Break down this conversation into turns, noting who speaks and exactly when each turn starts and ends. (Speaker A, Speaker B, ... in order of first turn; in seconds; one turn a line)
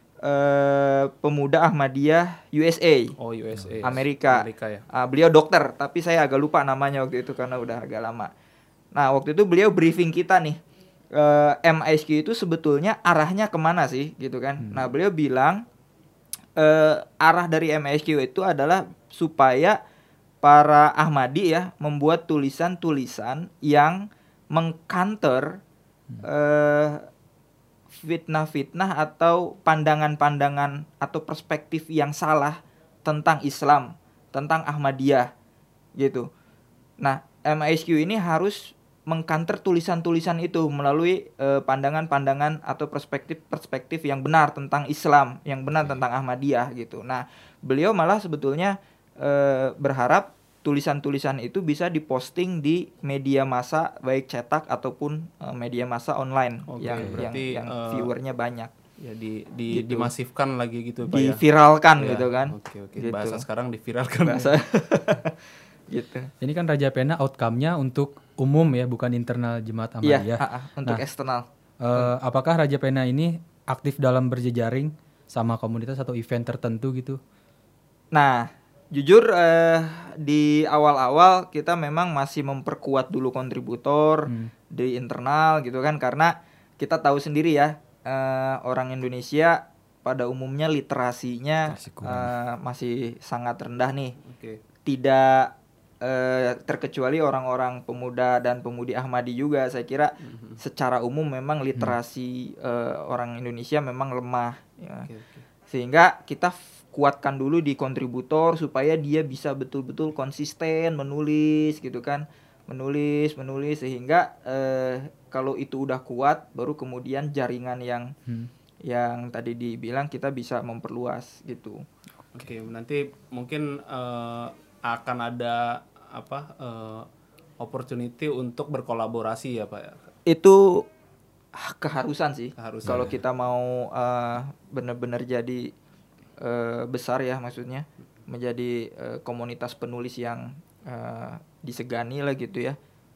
Speaker A: 0.2-3.1
Speaker B: 3.2-4.8
Speaker A: 3.8-8.3
Speaker A: 8.9-10.6
Speaker A: 11.1-15.6
Speaker C: 14.6-14.9
Speaker A: 16.6-19.8
Speaker A: 20.4-24.0
Speaker A: 24.5-25.6
Speaker A: 26.2-27.1
Speaker A: 27.9-35.3
Speaker A: 36.0-36.3
Speaker A: 37.0-58.7
Speaker B: 56.7-58.1
Speaker C: 56.8-57.3
Speaker B: 59.0-61.4
Speaker A: 59.7-60.1
Speaker A: 61.1-63.5
Speaker B: 62.0-64.6
Speaker A: 64.3-65.3
Speaker A: 65.9-66.3
Speaker C: 66.4-71.0
Speaker A: 70.0-72.1
Speaker C: 71.8-77.2
Speaker A: 78.1-94.2
Speaker C: 84.3-84.5
Speaker C: 91.7-92.3
Speaker B: 94.2-94.6
Speaker A: 94.8-105.1
Speaker B: 100.2-100.6
Speaker B: 105.1-105.5
Speaker A: 105.7-118.1
Speaker A: 118.9-121.8
Speaker B: 122.3-127.0
Speaker B: 127.6-130.0
Speaker A: 130.3-130.8
Speaker A: 131.6-135.7
Speaker B: 132.6-133.1
Speaker C: 132.9-133.2
Speaker A: 136.4-142.8